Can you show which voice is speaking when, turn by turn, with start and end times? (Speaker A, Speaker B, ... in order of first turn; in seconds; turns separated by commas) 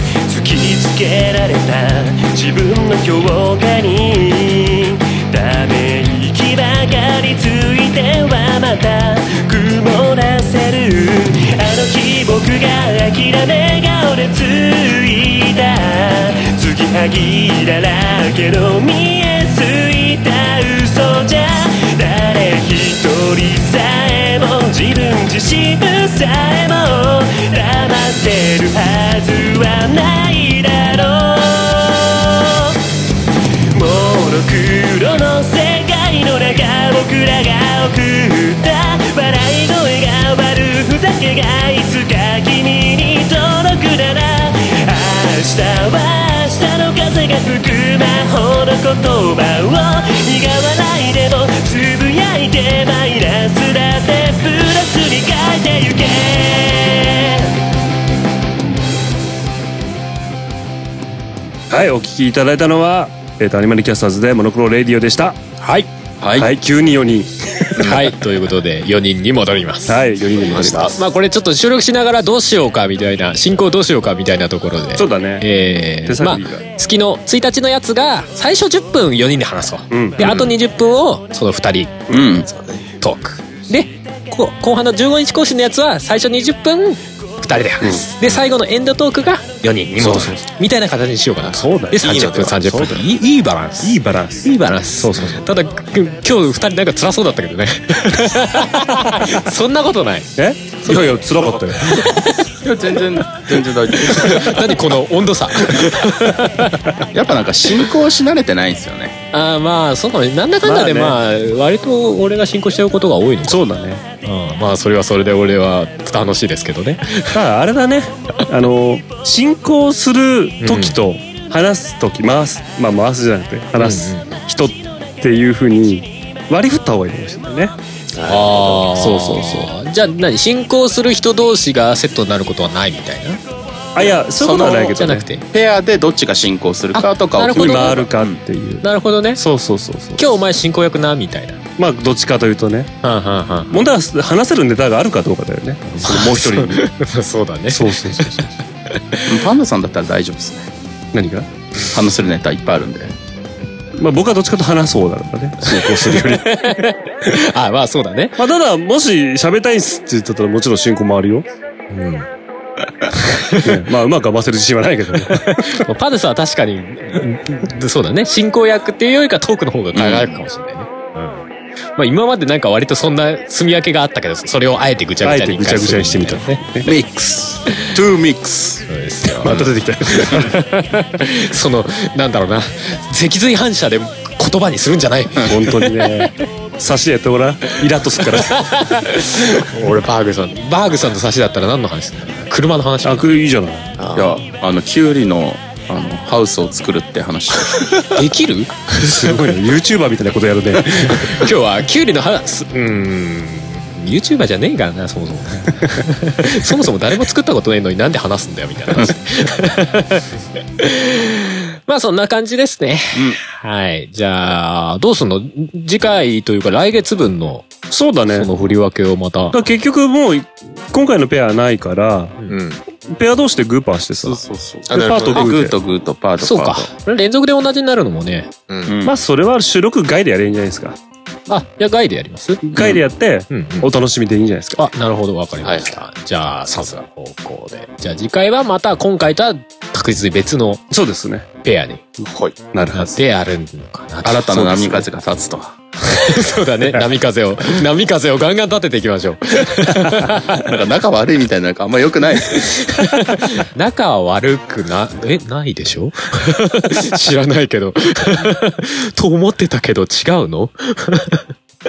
Speaker A: 0.2-32.8, Speaker A: 33.7-57.5, Speaker B: 61.7-65.4, Speaker C: 65.6-65.9, Speaker D: 66.2-66.5, Speaker B: 66.4-68.0, Speaker C: 67.8-82.0, Speaker B: 69.9-71.0, Speaker B: 75.0-75.5, Speaker B: 76.0-76.6, Speaker B: 79.9-80.2, Speaker D: 80.2-80.5, Speaker D: 82.1-82.5, Speaker E: 82.4-82.9, Speaker C: 83.0-102.5, Speaker B: 87.8-88.1, Speaker B: 90.0-90.4, Speaker B: 91.5-92.0, Speaker E: 91.9-93.1, Speaker B: 93.8-95.5, Speaker B: 100.4-102.3, Speaker D: 102.6-104.8, Speaker C: 104.0-106.8, Speaker D: 107.1-109.2, Speaker C: 109.3-113.6, Speaker B: 110.6-111.2, Speaker B: 113.5-114.0, Speaker C: 114.2-117.3, Speaker B: 117.3-127.8, Speaker C: 120.6-121.0, Speaker C: 123.8-124.4, Speaker E: 128.2-128.9, Speaker C: 128.2-133.4, Speaker B: 128.9-129.7, Speaker B: 134.0-135.3, Speaker D: 134.4-138.4, Speaker C: 134.9-135.5, Speaker C: 136.9-138.1, Speaker B: 137.5-138.8, Speaker C: 138.8-139.4, Speaker B: 139.4-140.2, Speaker C: 140.2-141.6, Speaker B: 141.8-142.9, Speaker C: 143.0-143.7, Speaker B: 143.7-146.9, Speaker C: 146.0-149.4, Speaker B: 147.7-148.5, Speaker D: 149.3-150.7, Speaker B: 151.1-151.5, Speaker D: 151.9-153.2, Speaker B: 154.0-156.8, Speaker C: 155.7-158.4, Speaker B: 158.4-161.5, Speaker C: 161.9-162.3, Speaker C: 163.1-163.8, Speaker B: 163.6-165.8, Speaker C: 165.3-176.6, Speaker D: 169.9-170.4, Speaker B: 175.2-176.9, Speaker D: 176.8-178.9, Speaker C: 177.7-178.0, Speaker C: 178.9-186.3, Speaker B: 179.3-180.6, Speaker B: 185.5-188.8, Speaker C: 188.3-193.3, Speaker B: 193.0-193.9, Speaker E: 194.0-194.4, Speaker D: 194.2-198.0, Speaker C: 198.1-198.7, Speaker B: 198.9-201.3, Speaker C: 200.9-217.7, Speaker D: 213.1-213.4, Speaker B: 217.9-218.5, Speaker C: 218.3-219.6, Speaker B: 219.5-222.3, Speaker E: 222.5-222.8, Speaker B: 223.0-225.8, Speaker D: 224.2-226.9, Speaker E: 224.9-225.5, Speaker C: 226.4-228.5, Speaker E: 228.7-228.9, Speaker D: 228.9-229.2, Speaker B: 229.0-231.0, Speaker C: 231.5-233.9, Speaker B: 232.6-234.8, Speaker C: 234.8-240.8, Speaker E: 235.6-236.0, Speaker E: 236.7-237.0, Speaker B: 240.9-241.5, Speaker C: 241.6-242.1, Speaker E: 242.3-242.6, Speaker B: 242.7-243.2, Speaker C: 242.9-245.0, Speaker D: 244.2-245.8, Speaker C: 246.1-250.7, Speaker D: 250.6-252.8, Speaker C: 252.6-261.5